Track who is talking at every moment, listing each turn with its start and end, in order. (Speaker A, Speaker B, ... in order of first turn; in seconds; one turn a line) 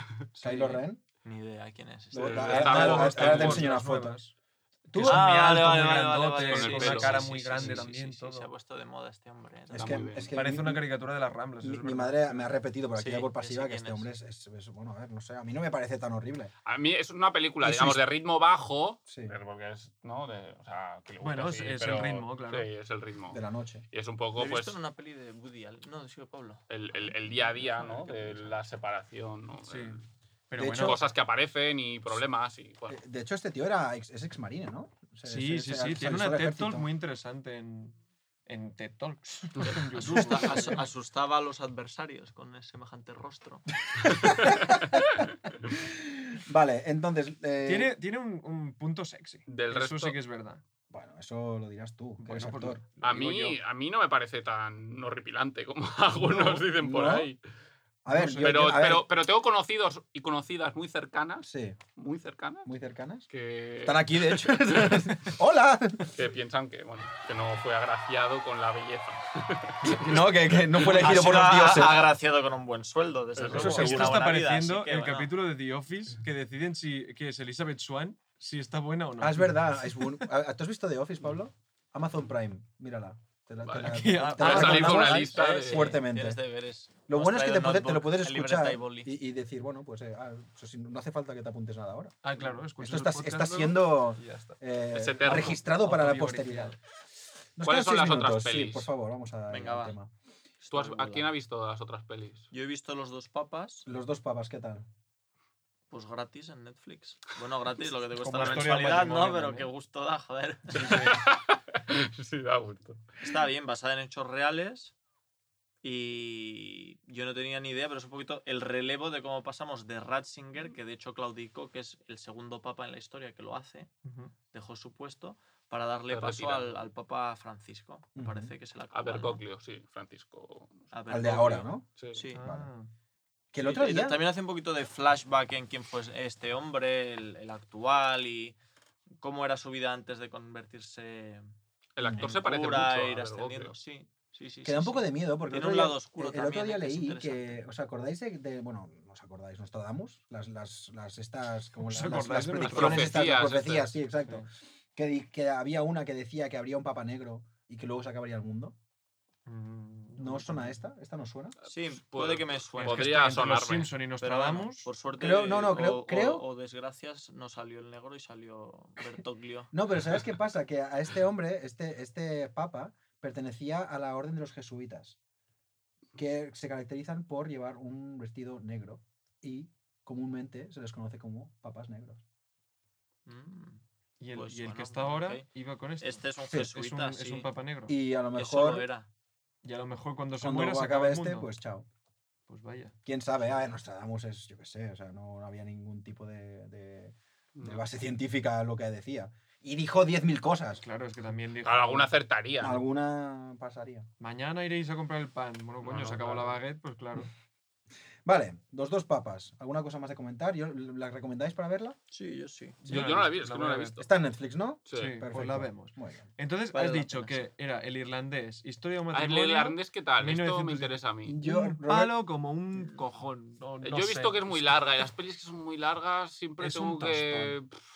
Speaker A: 0.4-0.8
Speaker B: 0.4-1.1
Speaker C: 1.2-2.8
Speaker B: 2.1-4.2
Speaker D: 2.2-3.7
Speaker A: 2.6-4.3
Speaker B: 4.9-5.2
Speaker A: 4.9-8.5
Speaker C: 5.0-10.0
Speaker D: 6.4-7.5
Speaker B: 7.5-7.8
Speaker B: 9.7-10.8
Speaker D: 9.8-10.3
Speaker A: 10.3-12.5
Speaker B: 11.6-16.5
Speaker C: 12.9-14.1
Speaker D: 16.6-23.4
Speaker B: 17.6-18.0
Speaker B: 19.1-19.4
Speaker A: 21.2-22.7
Speaker B: 23.3-23.9
Speaker D: 23.9-24.8
Speaker C: 24.4-28.6
Speaker D: 26.7-30.0
Speaker A: 29.6-30.0
Speaker A: 30.5-31.0
Speaker B: 30.5-31.0
Speaker D: 30.8-33.0
Speaker B: 32.9-36.9
Speaker A: 35.2-40.8
Speaker C: 39.6-43.6
Speaker B: 44.0-44.8
Speaker D: 44.2-45.0
Speaker B: 45.7-47.9
Speaker A: 47.6-50.6
Speaker D: 49.5-50.2
Speaker B: 50.9-52.8
Speaker A: 52.2-53.6
Speaker D: 53.0-57.4
Speaker B: 56.2-57.3
Speaker B: 58.0-59.0
Speaker A: 58.1-58.6
Speaker D: 58.4-62.7
Speaker B: 61.4-61.8
Speaker B: 62.6-63.3
Speaker D: 63.3-65.1
Speaker B: 63.8-66.1
Speaker D: 66.1-70.2
Speaker B: 69.8-72.0
Speaker D: 70.7-71.1
Speaker C: 70.9-75.3
Speaker D: 73.3-74.2
Speaker A: 73.5-80.2
Speaker B: 73.6-74.1
Speaker B: 79.2-86.4
Speaker D: 83.6-86.0
Speaker A: 83.8-85.3
Speaker C: 84.3-89.1
Speaker B: 87.0-96.7
Speaker A: 92.2-94.6
Speaker D: 94.9-95.6
Speaker A: 95.2-96.8
Speaker B: 97.6-100.1
Speaker D: 97.6-98.9
Speaker C: 99.5-100.0
Speaker C: 100.6-101.3
Speaker D: 100.7-102.5
Speaker C: 102.5-103.8
Speaker B: 103.8-104.8
Speaker C: 105.9-110.9
Speaker A: 108.1-109.7
Speaker A: 110.7-111.2
Speaker D: 110.8-113.0
Speaker C: 113.2-114.9
Speaker C: 115.8-123.9
Speaker A: 124.0-124.3
Speaker C: 124.5-129.4
Speaker D: 126.1-126.8
Speaker B: 128.2-128.5
Speaker D: 128.9-130.9
Speaker C: 130.9-132.4
Speaker B: 131.1-132.7
Speaker D: 131.9-132.2
Speaker A: 132.3-132.9
Speaker B: 133.5-134.2
Speaker C: 133.6-138.6
Speaker C: 139.2-141.5
Speaker D: 141.9-143.7
Speaker B: 142.0-142.3
Speaker C: 142.2-147.6
Speaker B: 144.6-158.7
Speaker A: 151.8-153.2
Speaker D: 152.7-154.0
Speaker A: 159.4-160.8
Speaker B: 160.2-161.6
Speaker D: 161.6-163.9
Speaker C: 161.7-163.1
Speaker A: 162.8-164.9
Speaker C: 164.2-169.7
Speaker B: 165.2-166.4
Speaker B: 169.7-175.2
Speaker B: 176.2-182.2
Speaker C: 183.2-183.8
Speaker A: 184.2-186.2
Speaker C: 184.3-185.4
Speaker C: 186.0-187.5
Speaker A: 186.7-187.9
Speaker B: 187.9-188.9
Speaker C: 188.3-189.1
Speaker A: 189.6-191.5
Speaker B: 190.4-191.8
Speaker A: 192.5-192.9
Speaker B: 193.0-200.8
Speaker D: 197.6-197.8
Speaker A: 200.8-202.1
Speaker D: 201.6-202.8
Speaker B: 202.6-204.1
Speaker A: 204.2-207.3
Speaker D: 205.8-206.6
Speaker B: 208.2-211.9
Speaker C: 212.1-213.2
Speaker A: 212.8-214.0
Speaker D: 212.8-214.1
Speaker B: 214.0-216.3
Speaker D: 214.9-215.2
Speaker A: 214.9-224.7
Speaker C: 216.7-217.5
Speaker D: 219.1-221.4
Speaker B: 221.2-222.1
Speaker D: 223.8-227.8
Speaker A: 226.6-227.6